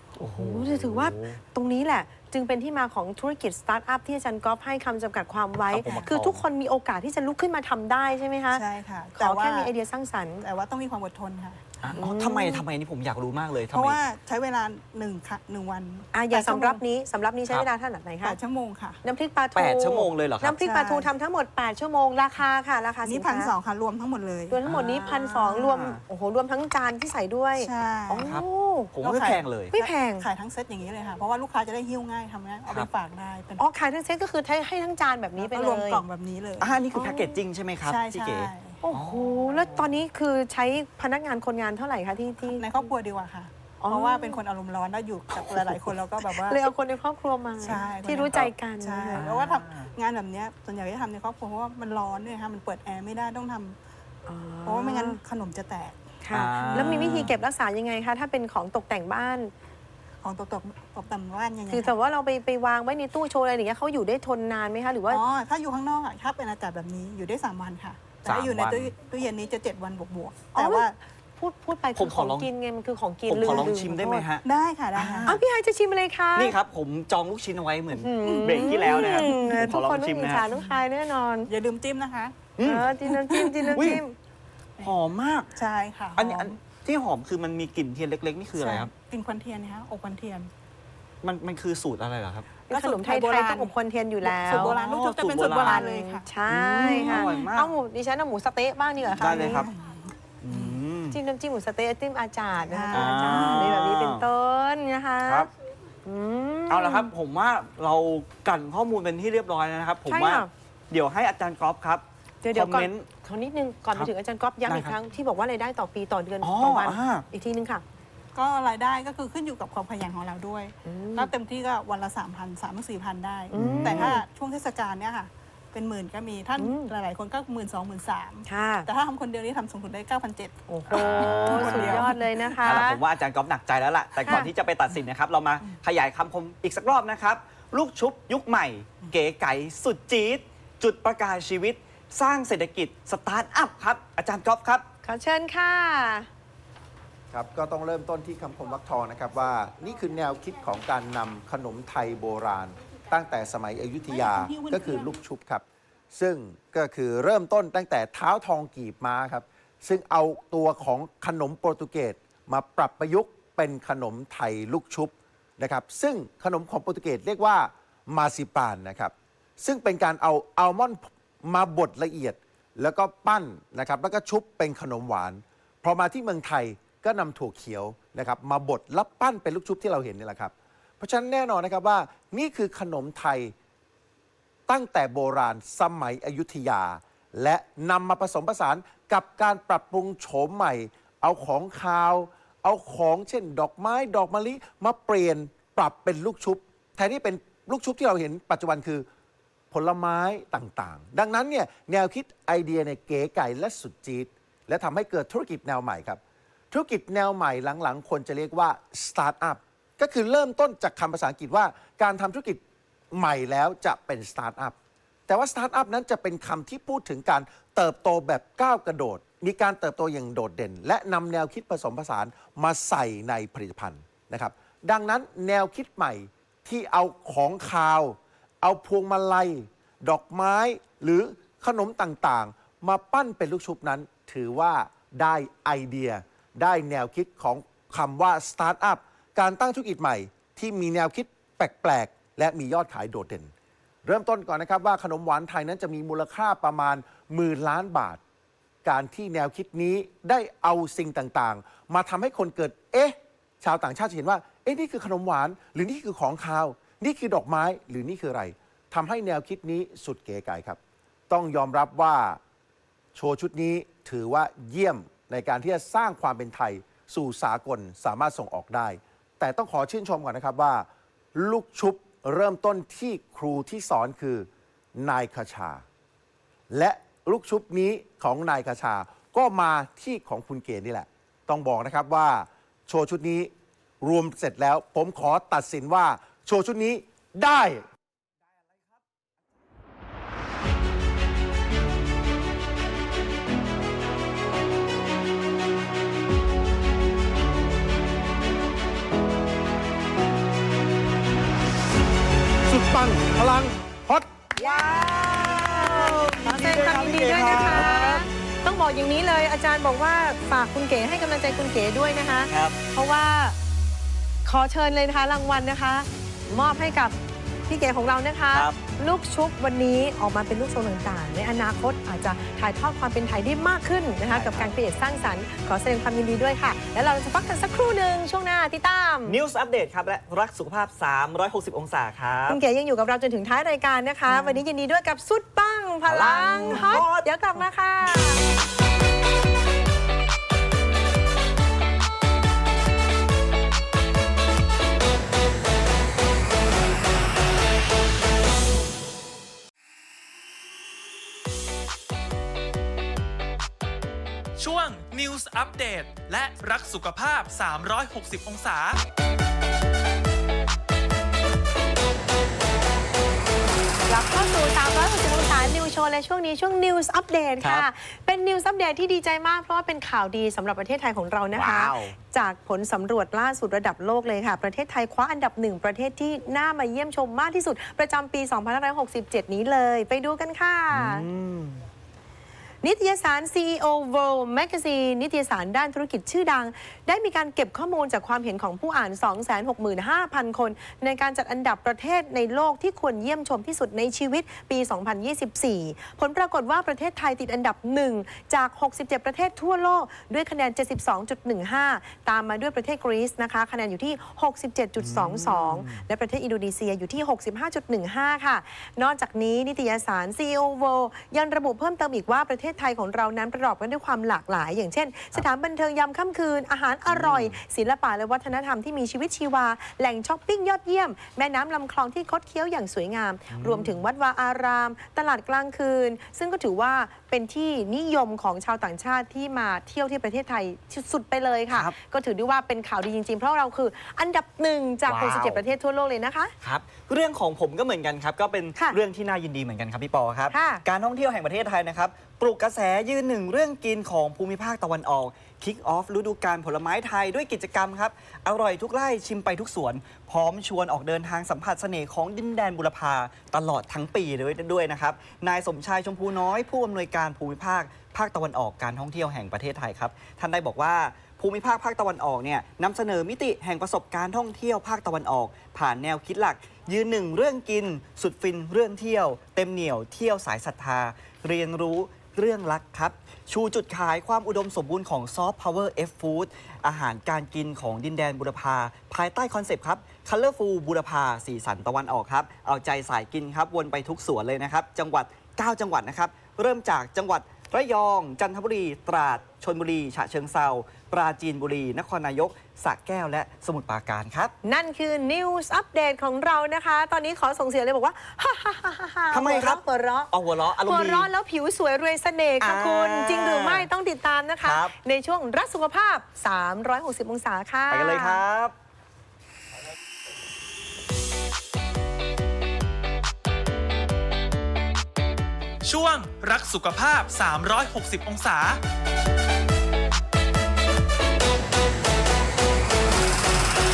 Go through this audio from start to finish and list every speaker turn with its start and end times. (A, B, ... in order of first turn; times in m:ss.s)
0:00.2-0:01.4 A
0:00.4-0:08.6 B
0:05.7-0:06.4 A
0:08.5-0:09.7 C
0:09.2-0:10.4 B
0:10.4-0:12.0 C
0:11.8-0:14.0 A
0:12.0-0:12.6 B
0:13.7-0:16.8 C
0:16.1-0:18.4 B
0:18.2-0:19.0 C
0:19.0-0:23.5 B
0:19.6-0:20.6 A
0:20.6-0:21.1 C
0:23.0-0:24.6 C
0:24.5-0:28.9 B
0:24.6-0:26.0 A
0:27.6-0:28.3 C
0:28.2-0:29.7 A
0:29.0-0:33.6 C
0:29.7-0:30.2 B
0:33.6-0:36.0 B
0:35.4-0:36.7 C
0:36.6-0:40.0 A
0:36.9-0:37.4 B
0:37.8-0:38.8 C
0:38.8-0:42.7 B
0:42.5-0:46.7 C
0:43.8-0:44.4 B
0:46.3-0:49.2 B
0:47.6-0:53.8 C
0:49.1-0:49.9 A
0:54.2-0:55.2 B
0:54.6-0:56.0 C
0:56.2-0:59.5 B
0:56.3-0:57.3 A
1:00.2-1:01.9 C
1:01.7-1:05.2 B
1:05.1-1:10.9 C
1:08.2-1:08.9 A
1:10.5-1:14.2 B
1:11.9-1:12.5 A
1:13.3-1:14.4 A
1:14.4-1:15.4 C
1:14.9-1:15.4 A
1:15.2-1:16.5 B
1:16.4-1:20.4 A
1:18.0-1:21.5 B
1:18.2-1:19.6 C
1:20.5-1:20.8 C
1:21.5-1:24.0 C
1:22.6-1:22.9 A
1:22.6-1:24.1 B
1:23.7-1:24.0 A
1:24.8-1:25.5 A
1:25.5-1:26.6 C
1:26.2-1:28.9 A
1:28.6-1:30.5 C
1:31.2-1:32.5 A
1:32.7-1:34.8 B
1:32.7-1:36.3 C
1:34.5-1:35.8 A
1:35.4-1:39.7 B
1:36.5-1:37.7 A
1:36.8-1:37.4 C
1:39.2-1:39.7 A
1:39.2-1:40.8 C
1:40.4-1:41.2 A
1:41.1-1:45.5 B
1:42.7-1:43.8 C
1:42.9-1:44.3 A
1:46.0-1:47.1 B
1:46.7-1:53.1 A
1:50.1-1:50.5 B
1:52.4-1:57.8 B
1:54.7-1:55.0 A
1:56.4-1:57.2 A
1:58.3-2:12.5 C
2:00.8-2:01.3 B
2:03.5-2:04.2 B
2:03.5-2:04.2 A
2:06.6-2:06.9 B
2:08.5-2:08.9 B
2:10.7-2:13.0 B
2:10.9-2:24.8 A
2:14.2-2:14.5 B
2:25.0-2:26.3 B
2:27.3-3:03.5 D
2:34.1-2:35.1 C
3:04.7-3:19.0 D
3:19.7-3:26.2 D
3:26.7-3:32.6 D
3:33.1-3:34.8 D
3:35.3-4:03.5 D
4:04.0-4:08.2 D
4:08.8-4:22.4 D
4:23.1-4:35.8 D
4:36.7-4:43.5 D
4:44.0-4:47.9 D
5:02.6-5:04.4 D
5:04.6-5:08.3 A
5:04.6-5:13.5 B
5:12.5-5:12.8 A
5:14.4-5:17.1 B
5:17.7-5:29.4 B
5:18.5-5:18.8 A
5:24.3-5:24.7 A
5:29.2-5:32.6 A
5:32.5-5:38.4 B
5:34.3-5:34.6 A
5:36.0-5:37.3 A
5:54.6-5:59.0 E
6:04.1-6:21.3 B
6:11.5-6:12.2 A
6:20.9-6:21.8 A
6:22.8-7:16.5 B
6:45.0-6:46.1 A
6:57.1-6:57.6 A
7:03.5-7:04.0 A
7:11.7-7:12.0 A
7:15.1-7:15.6 A
7:16.6-8:14.5 A
7:20.5-7:20.8 B
8:14.6-8:28.4 B
8:19.3-8:21.3 A
8:22.6-8:23.9 A
8:24.6-8:25.0 A
8:27.9-8:28.7 A
8:35.8-8:38.8 E